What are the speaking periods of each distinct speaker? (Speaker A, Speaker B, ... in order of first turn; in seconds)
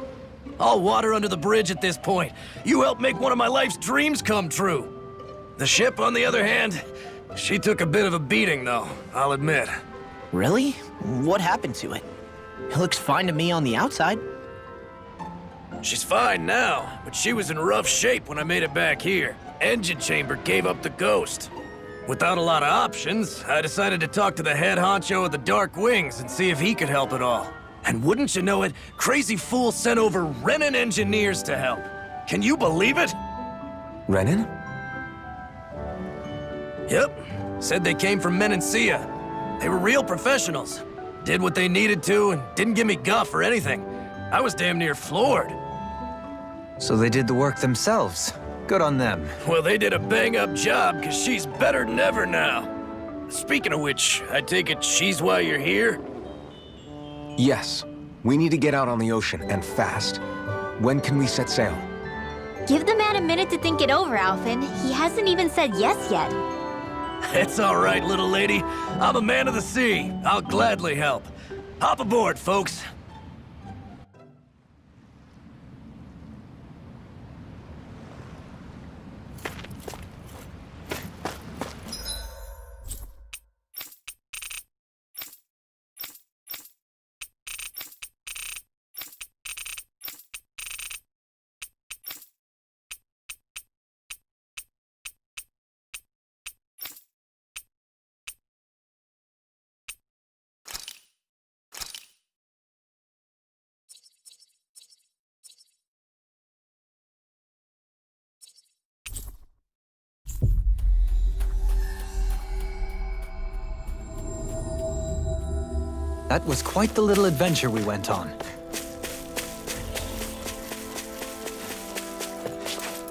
Speaker A: 0.6-4.9, 5.6-9.8, 15.8-21.5, 22.1-33.1, 36.9-39.1, 39.6-45.6, 49.4-52.7, 53.3-56.0, 67.2-72.8
Speaker B: 10.3-12.1, 12.7-14.2
Speaker C: 34.1-34.5, 57.4-60.2, 60.8-61.9
Speaker D: 46.8-49.3, 116.3-118.3
Speaker E: 62.6-66.3